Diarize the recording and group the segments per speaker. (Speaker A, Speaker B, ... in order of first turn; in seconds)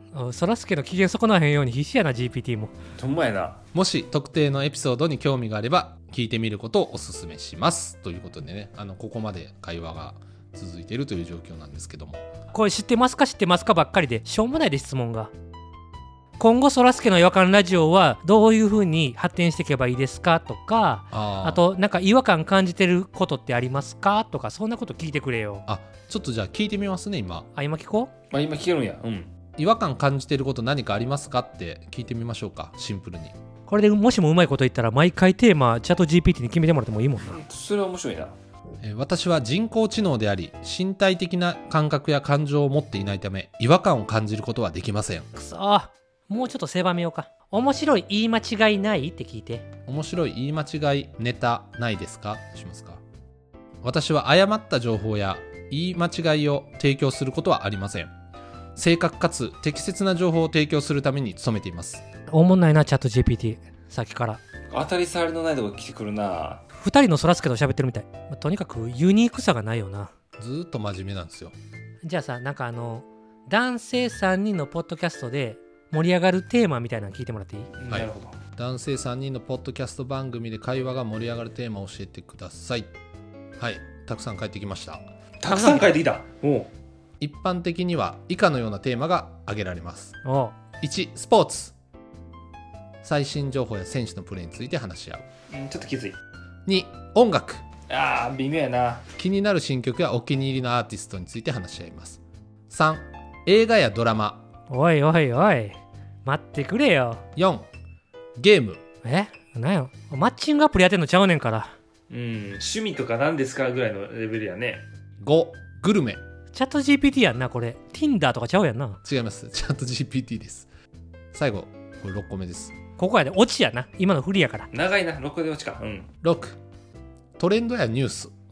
Speaker A: 0.1-2.7, 12.5-15.3, 16.4-25.6, 27.5-28.1, 33.7-37.4, 45.3-49.6, 62.3-64.4, 66.8-70.1, 72.0-77.7, 85.5-86.0, 90.2-90.5, 104.7-107.2, 109.0-111.7, 116.5-119.0, 123.0-124.7
Speaker B: 3.0-3.6, 28.3-29.3, 37.2-38.3, 64.7-66.6, 77.8-78.3, 85.4-86.7, 95.5-96.2, 97.9-99.0, 112.1-114.8, 124.7-126.1
Speaker C: 3.7-12.2, 21.1-21.6, 25.7-27.5, 29.6-33.4, 38.8-45.3, 49.9-53.0, 53.8-58.1, 58.8-62.0, 70.4-71.5, 77.9-82.9, 83.6-85.0, 87.2-90.2, 90.8-91.8, 93.0-95.2, 96.7-97.6, 99.2-104.4, 107.3-107.7, 108.4-108.8, 115.2-116.2, 119.0-120.7, 121.3-122.7, 126.2-126.6, 127.4-128.3